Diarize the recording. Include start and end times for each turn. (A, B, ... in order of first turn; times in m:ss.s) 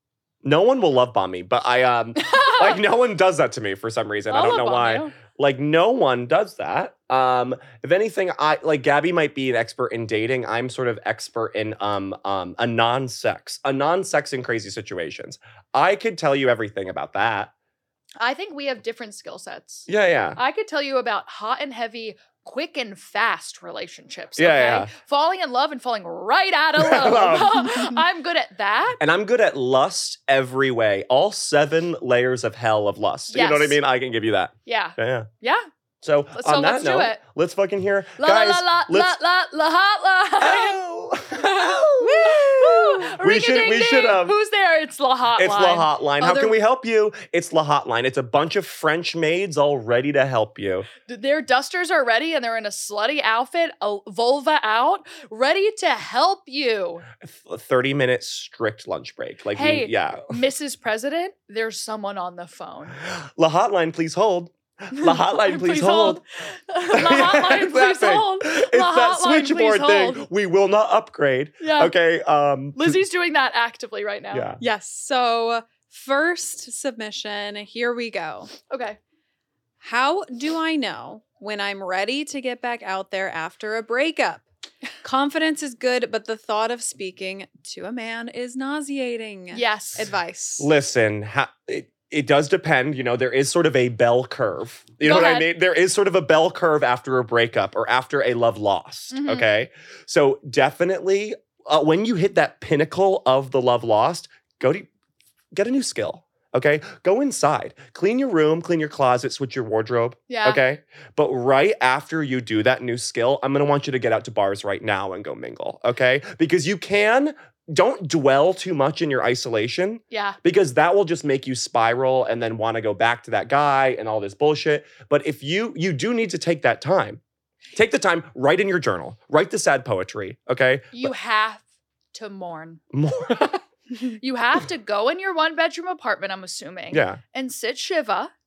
0:00.4-0:17.5 A
0:02.3-0:02.8 B
0:04.3-0:05.2 B
0:18.2-0:29.0 B
0:19.9-0:20.4 A
0:24.4-0:24.9 A
0:26.8-0:28.0 A
0:29.0-0:35.3 A
0:33.3-0:33.8 B
0:34.7-0:35.7 B
0:36.0-0:39.2 A
0:36.3-0:37.2 B
0:38.2-0:40.8 B
0:40.4-0:44.4 A
0:42.0-0:45.9 B
0:45.4-0:50.9 A
0:46.2-0:46.5 C
0:51.1-0:57.0 B
0:57.2-1:00.4 A
0:59.5-1:03.0 B
1:03.1-1:06.2 A
1:05.0-1:10.3 B
1:06.9-1:13.0 A
1:11.6-1:12.0 B
1:12.8-1:14.5 B
1:14.3-1:14.6 A
1:14.6-1:18.5 C
1:18.7-1:19.0 B
1:19.8-1:24.5 C
1:25.0-1:30.7 C
1:29.5-1:30.1 B
1:30.6-1:44.9 A
1:35.0-1:35.5 B
1:39.1-1:39.5 B
1:45.5-2:07.2 A
1:50.3-1:50.6 B
2:00.1-2:00.4 B
2:07.7-2:11.1 A
2:10.9-2:12.8 B
2:12.9-2:13.6 A
2:14.2-2:18.3 B
2:16.9-2:17.2 A